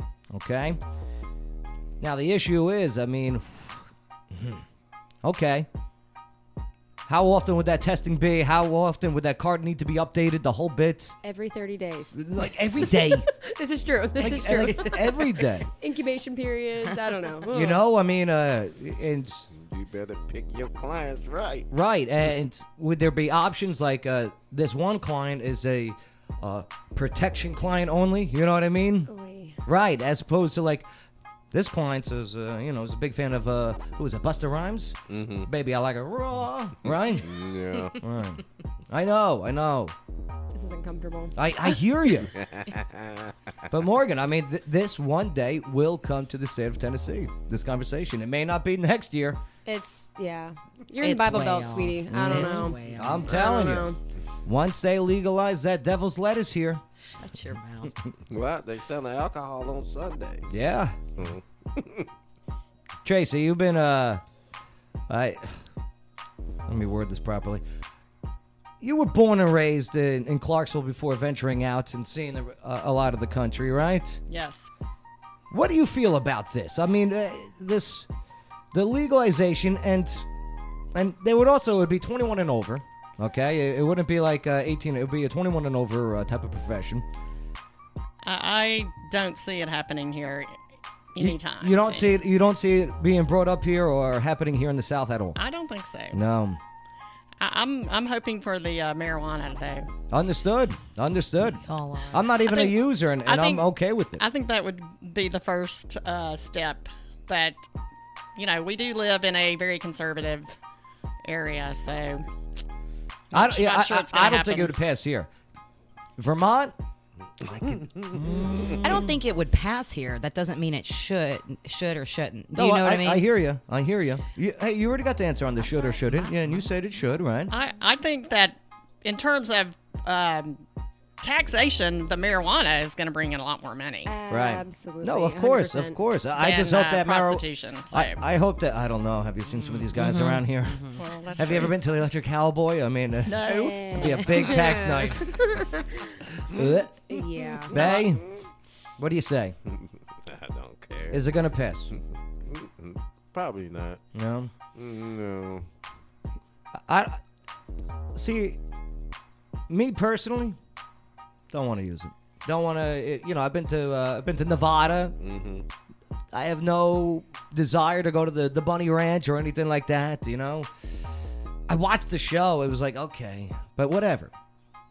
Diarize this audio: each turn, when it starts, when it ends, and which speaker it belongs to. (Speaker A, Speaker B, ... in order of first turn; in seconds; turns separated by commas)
Speaker A: 0.3-0.8, Speaker A: 2.0-4.6, Speaker A: 5.2-5.7, Speaker A: 7.1-11.2, Speaker B: 11.2-12.2, Speaker A: 12.1-13.3, Speaker B: 12.8-15.2, Speaker A: 14.2-15.7, Speaker B: 15.8-17.8, Speaker A: 17.5-19.5, Speaker C: 19.5-21.7, Speaker A: 21.7-29.1, Speaker B: 29.1-29.6, Speaker A: 29.6-30.9, Speaker A: 31.5-37.3, Speaker C: 35.1-35.5, Speaker C: 37.1-38.0, Speaker A: 38.0-39.9, Speaker B: 40.5-41.3, Speaker A: 41.4-42.3, Speaker C: 42.3-43.3, Speaker A: 43.7-49.4, Speaker B: 49.6-54.0, Speaker D: 51.0-53.3, Speaker A: 52.3-53.9, Speaker A: 54.5-56.8, Speaker D: 57.0-57.9, Speaker C: 58.3-60.5, Speaker A: 60.5-61.0, Speaker C: 61.2-62.1, Speaker A: 63.0-64.2, Speaker A: 65.1-65.6, Speaker A: 66.7-67.6, Speaker A: 68.8-74.2, Speaker E: 74.3-74.7, Speaker A: 75.5-78.1, Speaker A: 78.7-80.2, Speaker A: 80.9-87.0, Speaker E: 88.2-90.6, Speaker E: 91.1-92.1, Speaker A: 91.2-95.4, Speaker E: 95.3-96.2, Speaker A: 96.1-96.6, Speaker E: 97.4-99.9, Speaker A: 100.1-104.2, Speaker D: 101.4-102.3, Speaker E: 102.5-103.7, Speaker E: 104.2-107.6, Speaker E: 108.3-110.5, Speaker E: 111.2-112.2, Speaker E: 113.3-114.7, Speaker A: 113.3-115.3, Speaker A: 116.2-116.7, Speaker A: 117.4-119.2, Speaker D: 118.8-123.2, Speaker A: 122.5-127.5, Speaker D: 125.8-126.7, Speaker E: 127.5-130.6, Speaker E: 131.2-134.1, Speaker B: 134.1-136.0, Speaker A: 134.3-140.8, Speaker E: 136.4-138.2, Speaker D: 139.5-141.6, Speaker E: 141.0-141.7, Speaker A: 141.3-145.4, Speaker B: 143.4-147.9, Speaker A: 146.5-146.9, Speaker A: 147.7-148.2, Speaker A: 149.0-149.5, Speaker C: 149.7-151.2, Speaker A: 151.1-151.9, Speaker C: 151.9-154.0, Speaker A: 154.1-154.5, Speaker C: 154.7-155.7, Speaker A: 156.7-157.2, Speaker A: 158.1-158.6, Speaker A: 159.7-160.6, Speaker A: 161.5-165.2, Speaker C: 165.2-165.7, Speaker A: 166.3-170.7, Speaker A: 171.7-174.3